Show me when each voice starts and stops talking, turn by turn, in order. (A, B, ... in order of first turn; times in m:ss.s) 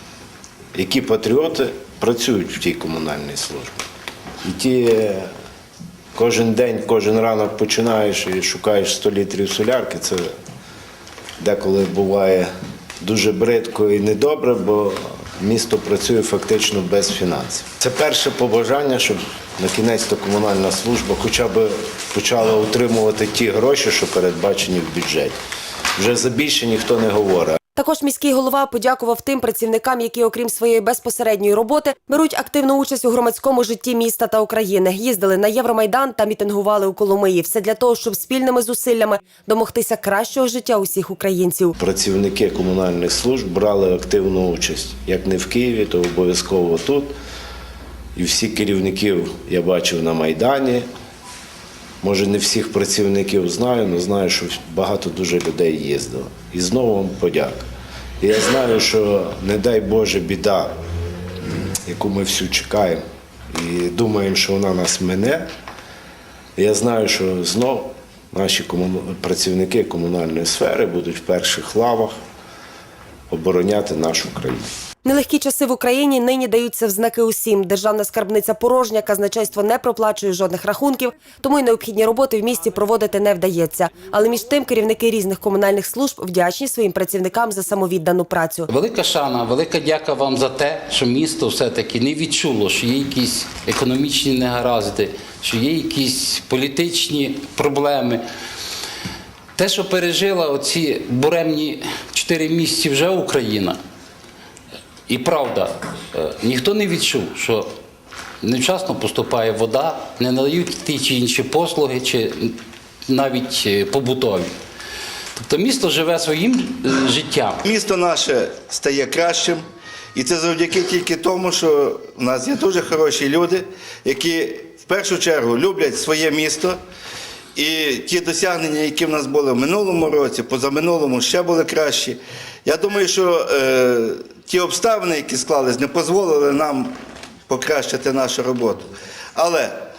0:00.7-0:03.8 A
0:04.4-0:05.3 A
0:06.1-0:10.3 A
0:11.4-0:12.5 A
0:13.0-0:25.3 A
0:26.0-0:27.6 A
0:27.8-0:41.7 B
0:41.8-0:47.1 A
0:48.2-0:50.9 A
0:52.0-0:57.7 A
0:58.2-1:00.7 A
1:01.8-1:03.0 A
1:03.5-1:05.5 A
1:06.6-1:12.1 A
1:13.3-1:14.7 A
1:15.0-1:28.7 B
1:28.7-1:38.2 C
1:39.6-1:43.8 C
1:45.1-1:47.7 C
1:48.4-1:54.5 C
1:55.4-1:57.6 C
1:57.6-1:59.6 D
2:00.1-2:06.8 D
2:07.5-2:16.9 D
2:17.5-2:19.8 D